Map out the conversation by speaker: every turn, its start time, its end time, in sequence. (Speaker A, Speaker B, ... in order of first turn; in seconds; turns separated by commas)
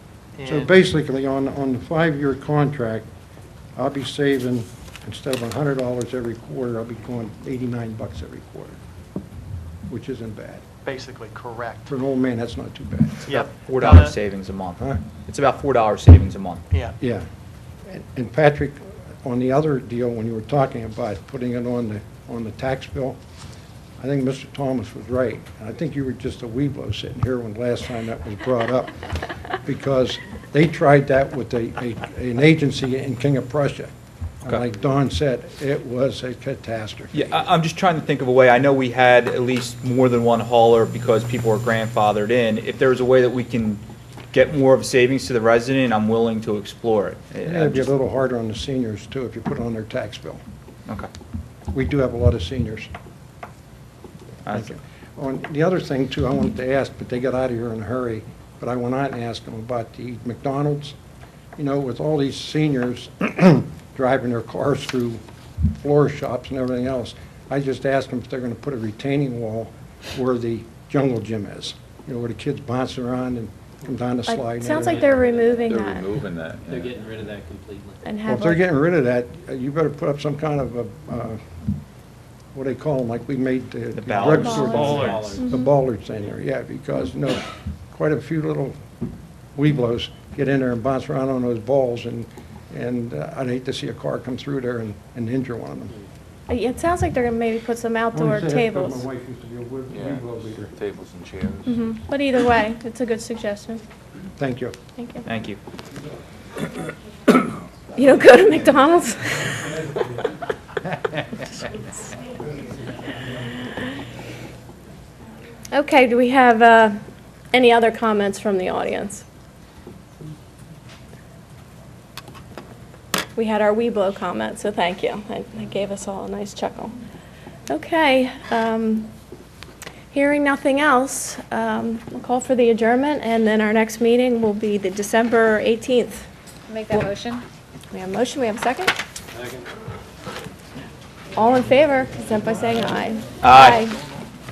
Speaker A: 0.4-0.8, Speaker B: 0.5-3.1, Speaker B: 3.8-8.8, Speaker B: 9.9-10.6, Speaker A: 10.8-11.9, Speaker B: 11.9-13.3, Speaker A: 13.3-14.1, Speaker C: 13.3-16.6, Speaker B: 17.0-17.3, Speaker B: 17.9-23.2, Speaker B: 24.0-29.0, Speaker B: 29.6-33.9, Speaker B: 34.4-37.3, Speaker C: 37.1-47.9, Speaker B: 47.5-50.4, Speaker B: 51.7-52.9, Speaker C: 54.5-54.7, Speaker B: 54.5-61.0, Speaker B: 61.6-75.2, Speaker D: 74.3-76.0, Speaker E: 74.9-75.5, Speaker F: 75.6-77.0, Speaker E: 76.7-78.0, Speaker D: 78.0-78.6, Speaker B: 78.3-81.4, Speaker B: 82.5-88.8, Speaker C: 83.9-85.4, Speaker D: 84.2-85.7, Speaker E: 84.7-85.4, Speaker B: 89.5-96.0, Speaker D: 96.5-99.0, Speaker B: 98.1-100.7, Speaker F: 99.9-101.9, Speaker D: 101.7-103.8, Speaker B: 104.4-104.8, Speaker D: 105.0-105.2, Speaker C: 105.2-105.6, Speaker D: 108.0-109.7, Speaker D: 115.7-117.0, Speaker D: 117.5-119.2, Speaker D: 123.4-127.0, Speaker D: 127.7-129.1, Speaker D: 130.1-136.3, Speaker D: 137.9-138.9, Speaker E: 139.3-139.7, Speaker D: 141.3-144.0, Speaker C: 143.4-143.8